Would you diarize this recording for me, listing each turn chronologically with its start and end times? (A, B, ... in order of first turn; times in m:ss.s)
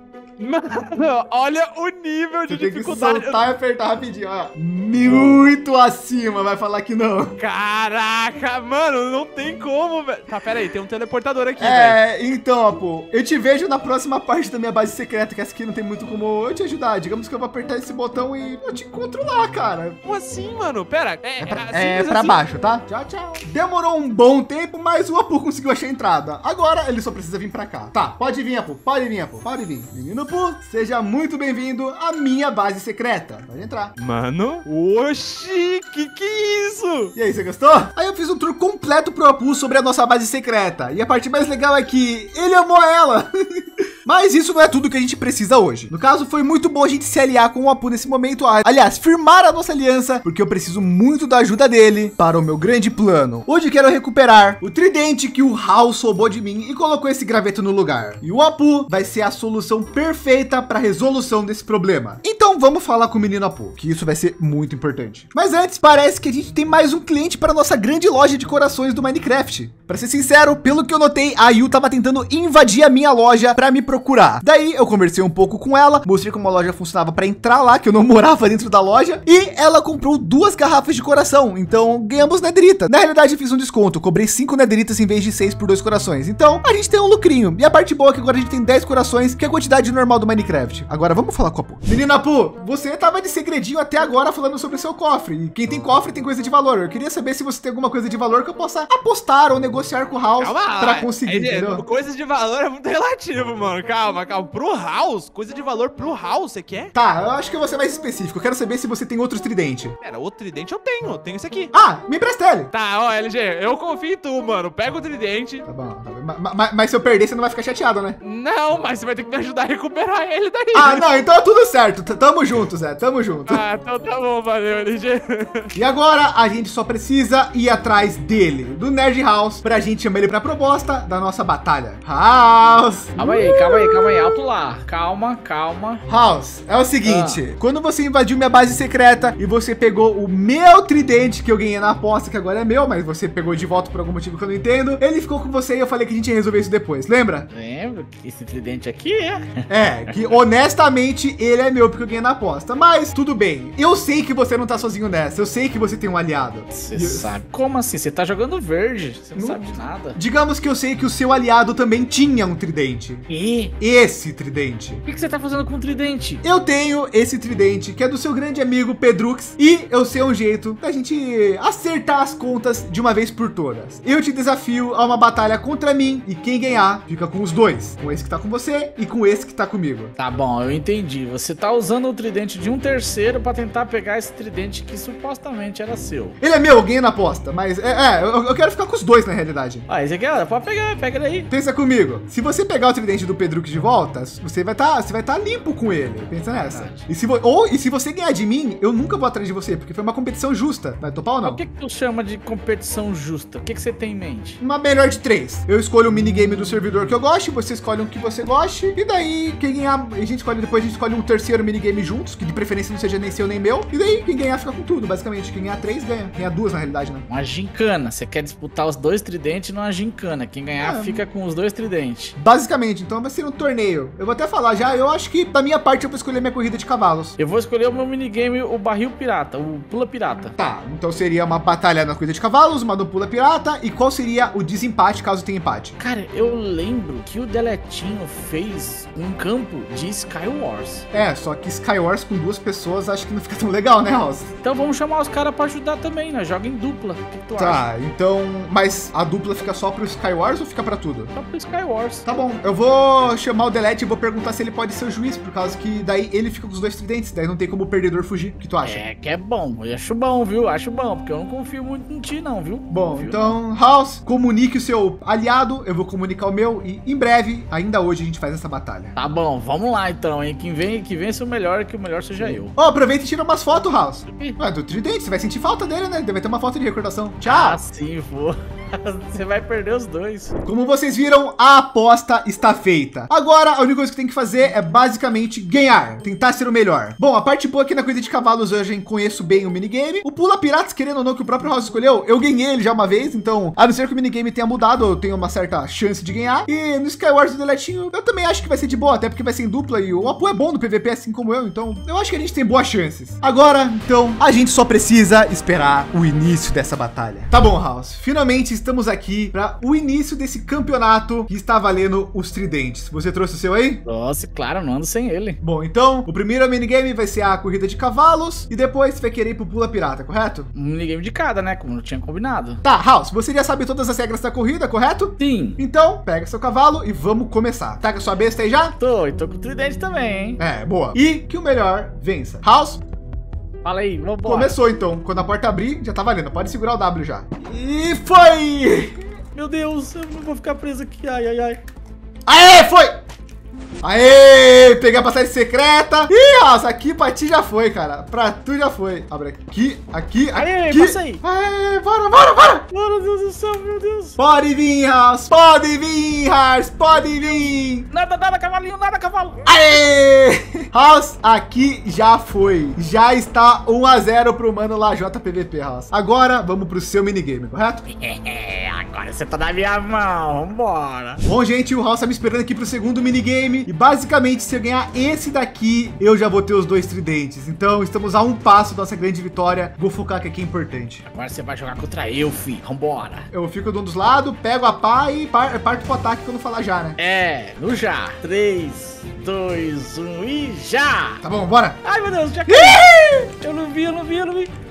0:00.4-0:03.4 A
0:02.5-0:07.4 B
0:05.0-0:05.3 A
0:07.4-0:12.0 A
0:11.6-0:20.0 B
0:20.0-0:22.4 A
0:21.4-0:33.9 B
0:34.0-0:37.1 A
0:37.1-1:41.8 B
1:40.4-1:46.9 A
1:46.9-1:50.0 B
1:50.0-1:51.7 A
1:51.7-1:52.7 B
1:52.7-1:55.6 A
1:55.6-1:58.2 B
1:58.2-2:01.0 A
2:00.7-2:03.6 B
2:03.5-2:05.7 A
2:05.7-2:14.3 B
2:13.2-2:16.0 C
2:16.1-2:27.5 B
2:17.0-2:17.4 C
2:27.5-2:30.1 C
2:29.7-2:37.4 B
2:36.7-2:40.2 C
2:39.4-2:43.2 B
2:43.3-2:43.7 C
2:43.8-2:45.0 B
2:45.0-2:46.4 C
2:46.4-3:00.1 B
3:00.2-3:06.4 C
3:06.4-3:09.8 B
3:09.9-3:11.5 C
3:11.5-3:21.6 B
3:16.6-3:17.1 C
3:21.4-3:24.6 C
3:24.6-3:37.2 B
3:37.3-3:42.3 C
3:40.8-3:41.2 B
3:42.4-3:47.4 B
3:47.4-3:50.5 C
3:50.6-3:56.0 B
3:56.0-4:01.0 C
4:01.1-4:04.5 B
4:04.6-4:07.8 C
4:07.6-4:11.3 B
4:11.3-4:12.2 C
4:12.2-4:19.0 B
4:18.8-4:23.6 C
4:22.9-4:29.1 B
4:29.2-4:32.7 C
4:32.4-4:37.8 B
4:37.4-4:40.5 C
4:40.6-5:14.0 B
5:14.0-5:15.6 C
5:15.6-5:20.7 B
5:20.7-5:22.8 C
5:22.8-5:29.0 B
5:25.4-5:25.8 C
5:29.0-5:30.6 C
5:30.6-5:33.0 B
5:33.8-5:34.7 C
5:34.4-5:39.2 B
5:39.5-5:41.8 C
5:42.4-5:43.2 B
5:44.0-5:52.8 B
5:50.5-5:51.4 C
5:52.9-5:54.4 C
5:54.4-5:58.1 B
5:58.1-5:59.6 C
5:59.6-6:08.0 B
6:08.0-6:11.4 C
6:11.4-6:21.2 B
6:21.3-6:23.5 C
6:23.5-6:27.2 B
6:27.2-6:31.4 C
6:31.4-6:32.0 B
6:32.0-6:34.7 C
6:32.6-6:33.5 B